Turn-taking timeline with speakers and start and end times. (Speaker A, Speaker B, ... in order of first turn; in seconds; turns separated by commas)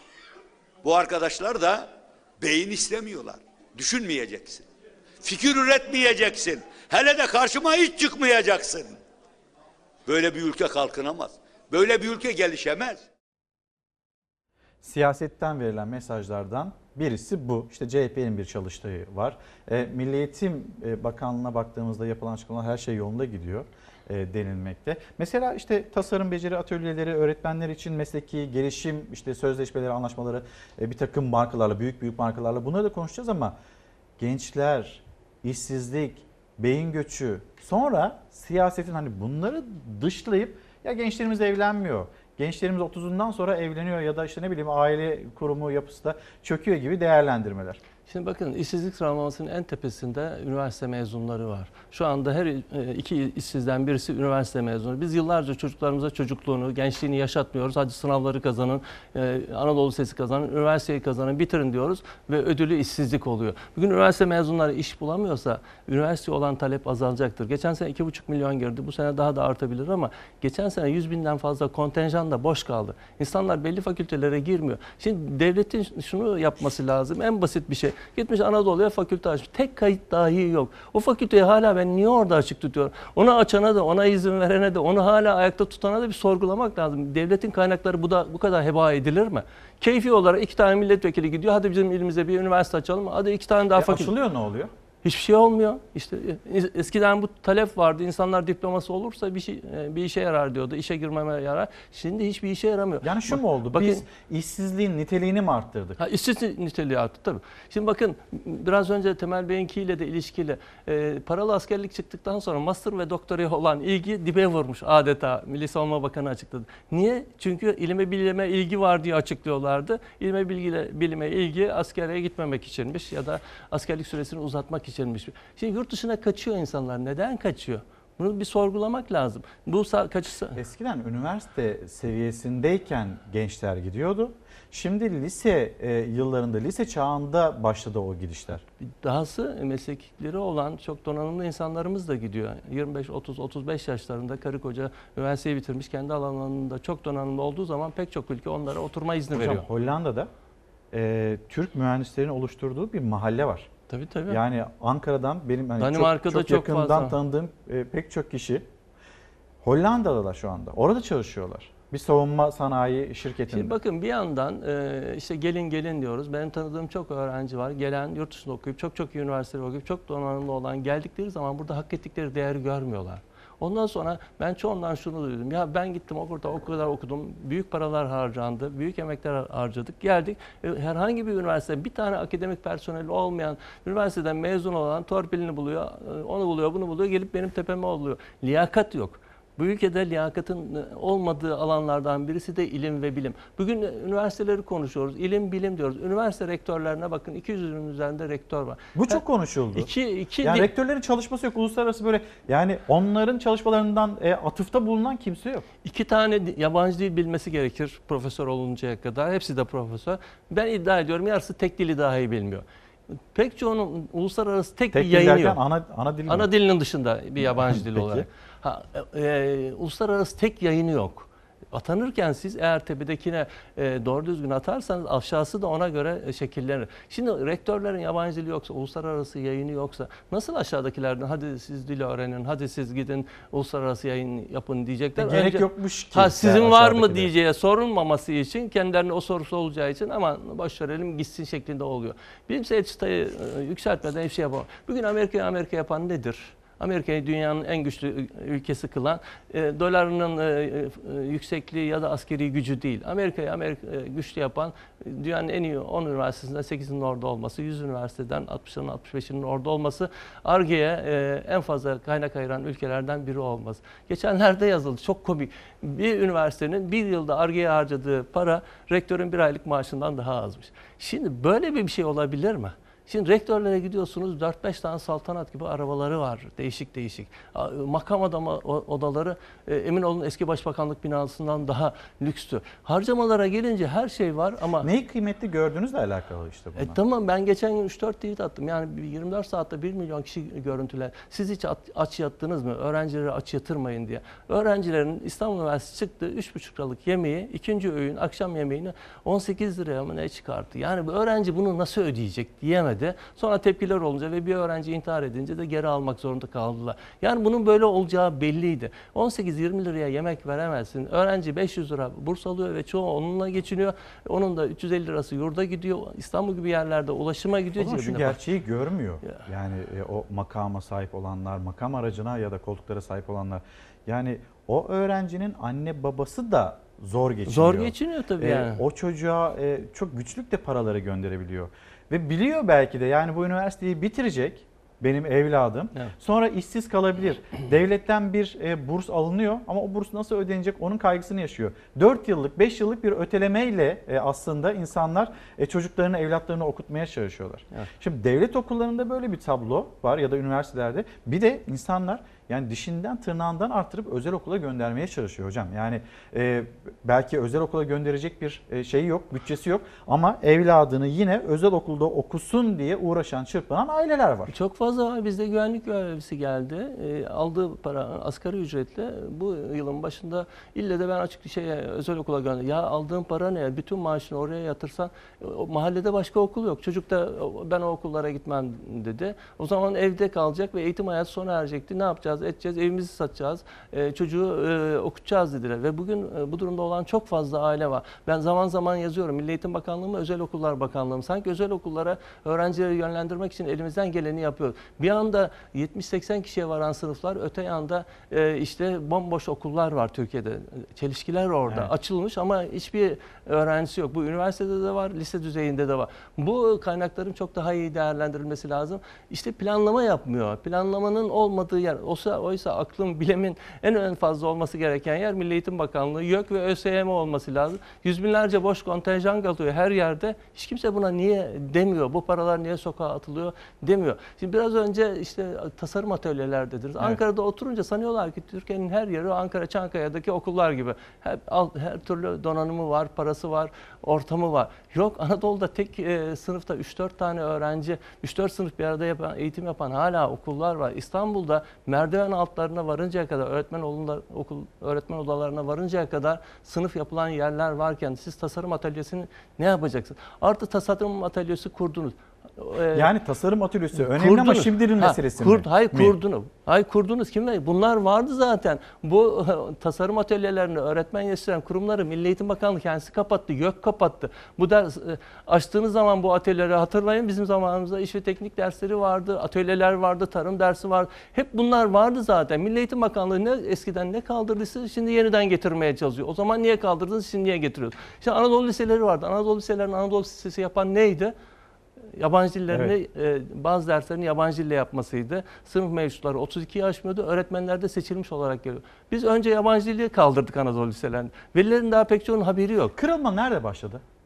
Speaker A: 0.8-4.7, Speaker A: 5.2-9.0, Speaker A: 10.1-13.0, Speaker B: 14.8-33.5, Speaker B: 34.2-47.8, Speaker C: 48.0-94.1, Speaker B: 93.7-94.7, Speaker C: 95.0-104.0, Speaker B: 103.0-106.0, Speaker C: 106.0-130.6, Speaker B: 130.5-138.6, Speaker C: 138.9-149.7, Speaker B: 149.3-150.3, Speaker B: 150.9-153.7, Speaker C: 153.9-154.4, Speaker B: 154.3-158.7, Speaker C: 155.8-157.2, Speaker B: 159.6-163.8, Speaker C: 163.5-199.2, Speaker B: 198.9-199.9, Speaker C: 199.7-200.7, Speaker B: 200.4-205.7, Speaker C: 205.8-215.6, Speaker B: 214.9-216.5, Speaker C: 216.3-284.9, Speaker B: 217.4-218.2, Speaker B: 235.2-237.3, Speaker B: 284.8-287.0, Speaker C: 286.8-318.4, Speaker B: 317.8-364.5, Speaker C: 327.5-328.8, Speaker C: 364.5-453.1, Speaker B: 452.9-456.1, Speaker C: 454.0-481.4, Speaker C: 482.1-492.9, Speaker B: 492.9-494.0